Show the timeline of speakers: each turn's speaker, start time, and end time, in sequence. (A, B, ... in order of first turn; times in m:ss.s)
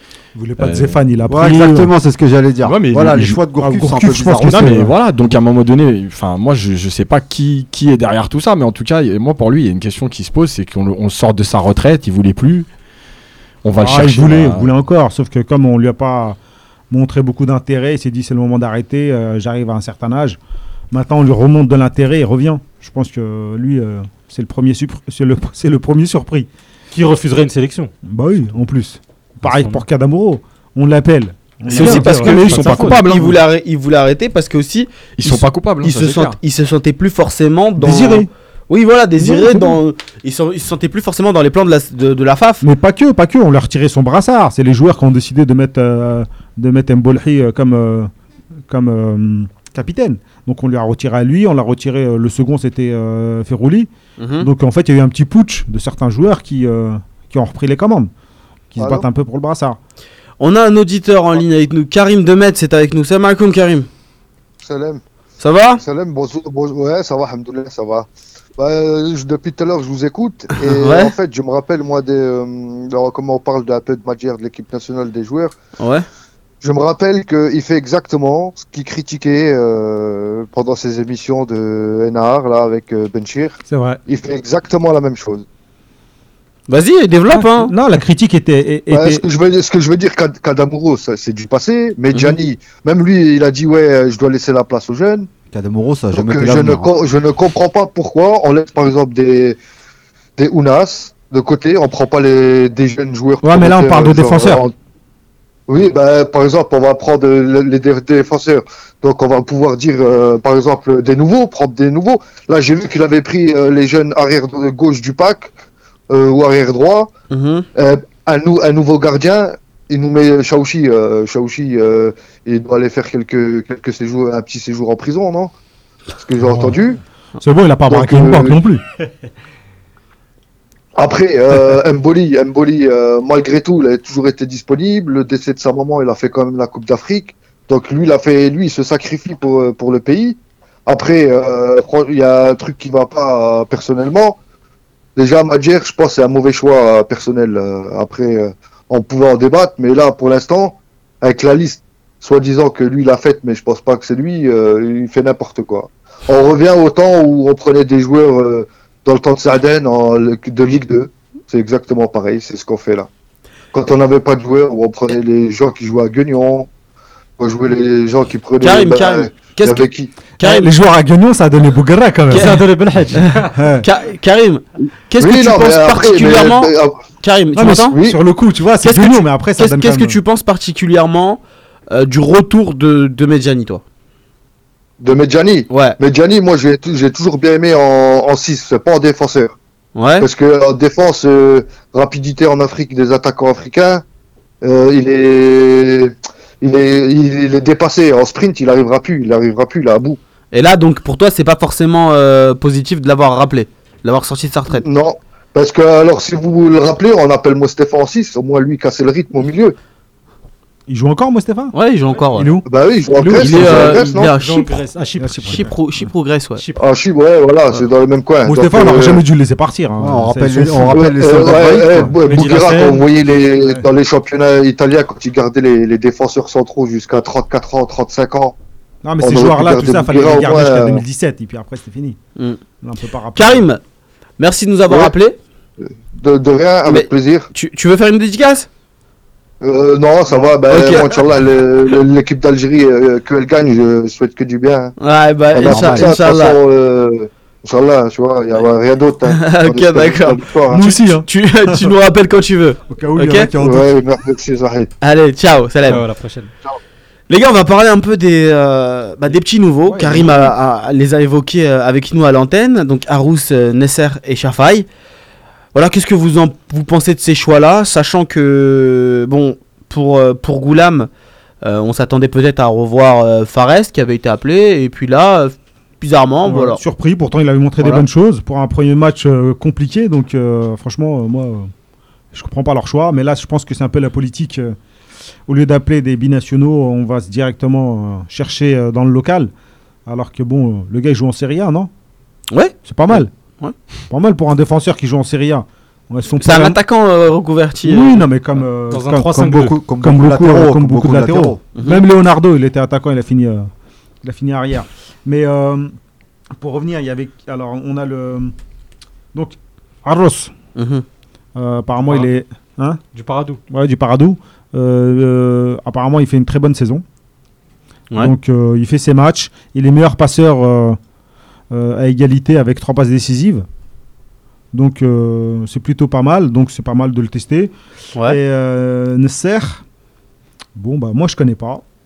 0:00.4-0:01.9 A
0:00.6-0:01.0 B
0:01.3-0:04.9 C
0:02.6-0:03.4 B
0:03.6-0:04.9 A
0:04.5-0:12.7 B
0:13.6-0:14.7 B
0:13.8-0:16.4 A
0:16.9-0:20.4 A
0:20.9-0:26.5 A
0:26.9-0:27.9 D
0:28.0-0:33.0 A
0:29.4-0:29.8 D
0:31.7-0:33.4 B
0:31.7-0:42.6 E
0:31.8-0:33.0 D
0:35.2-0:36.4 B
0:37.8-0:38.3 A
0:39.2-0:39.8 A
0:42.6-0:48.1 A
0:48.7-0:58.1 A
0:54.2-0:54.5 E
0:58.7-0:59.8 A
0:58.8-0:59.0 F
1:00.4-1:03.9 E
1:04.6-1:05.0 F
1:05.4-1:05.8 E
1:05.8-1:15.6 F
1:10.5-1:11.1 E
1:15.8-1:16.0 E
1:16.6-1:25.4 F
1:23.7-1:24.0 A
1:26.7-1:27.7 E
1:27.3-1:29.2 A
1:28.9-1:35.3 F
1:32.1-1:32.4 E
1:35.5-1:36.9 C
1:36.1-1:39.6 F
1:40.4-1:44.7 F
1:43.4-1:44.6 A
1:45.7-1:55.5 F
1:56.1-1:57.1 F
1:57.3-1:57.6 E
1:57.8-2:05.5 F
2:06.1-2:07.0 F
2:06.4-2:06.8 A
2:07.4-2:08.8 A
2:07.9-2:08.6 F
2:11.0-2:24.4 F
2:25.2-2:43.1 F
2:43.7-2:46.7 F
2:47.4-2:50.1 F
2:48.6-2:49.9 E
2:50.4-2:52.6 A
2:50.4-2:50.7 E
2:52.3-2:52.6 E
2:52.3-2:53.5 D
2:53.2-2:58.0 E
2:53.5-2:53.8 A
2:55.2-2:57.2 F
2:57.5-3:00.2 A
2:57.7-2:58.2 F
2:58.8-3:03.8 E
3:05.0-3:09.6 F
3:05.7-3:06.0 E
3:10.0-3:10.3 E
3:10.2-3:14.0 F
3:14.6-3:20.2 F
3:20.5-3:24.8 E
3:24.7-3:29.8 F
3:30.9-3:31.7 A
3:31.7-3:32.6 E
3:32.3-3:32.6 A
3:32.6-3:34.3 F
3:33.2-3:34.0 A
3:33.4-3:34.8 E
3:34.4-3:35.7 D
3:35.2-3:35.7 A
3:35.5-3:36.6 E
3:36.8-3:39.2 F
3:38.4-3:41.1 A
3:40.0-3:42.1 C
3:40.9-3:48.6 F
3:41.7-3:42.4 A
3:42.2-3:43.0 D
3:43.6-3:43.8 A
3:49.0-3:52.2 A
3:49.2-3:51.0 F
3:52.8-3:53.6 A
3:53.3-3:53.8 E
3:54.4-3:55.4 E
3:55.8-3:57.5 F
3:56.9-3:58.7 E
3:59.6-4:04.9 F
4:00.4-4:01.2 E
4:05.0-4:06.6 E
4:05.5-4:10.9 F
4:05.6-4:06.1 C
4:09.3-4:13.5 E
4:10.7-4:11.9 A
4:12.9-4:13.9 A
4:13.6-4:14.9 F
4:15.0-4:16.0 E
4:15.8-4:16.5 D
4:17.3-4:24.9 E
4:19.9-4:20.5 A
4:25.7-4:31.1 E
4:31.6-4:36.8 E
4:36.4-4:41.7 A
4:37.8-4:38.0 E
4:42.3-4:44.8 A
4:45.5-4:49.5 A
4:50.0-4:51.9 A
4:52.5-4:53.7 E
4:52.8-4:53.3 A
4:54.1-4:56.8 A
4:56.4-4:58.2 E
4:57.8-5:03.7 A
4:58.9-4:59.8 D
4:59.3-5:01.6 C
5:01.7-5:02.0 E
5:04.2-5:05.9 A
5:06.6-5:08.5 A
5:09.3-5:10.5 A
5:10.8-5:11.0 E
5:11.6-5:13.0 A
5:13.1-5:13.6 D
5:13.7-5:17.0 A
5:18.2-5:21.0 A
5:21.7-5:23.6 A
5:24.7-5:27.7 A
5:28.2-5:29.8 A
5:30.8-5:31.8 A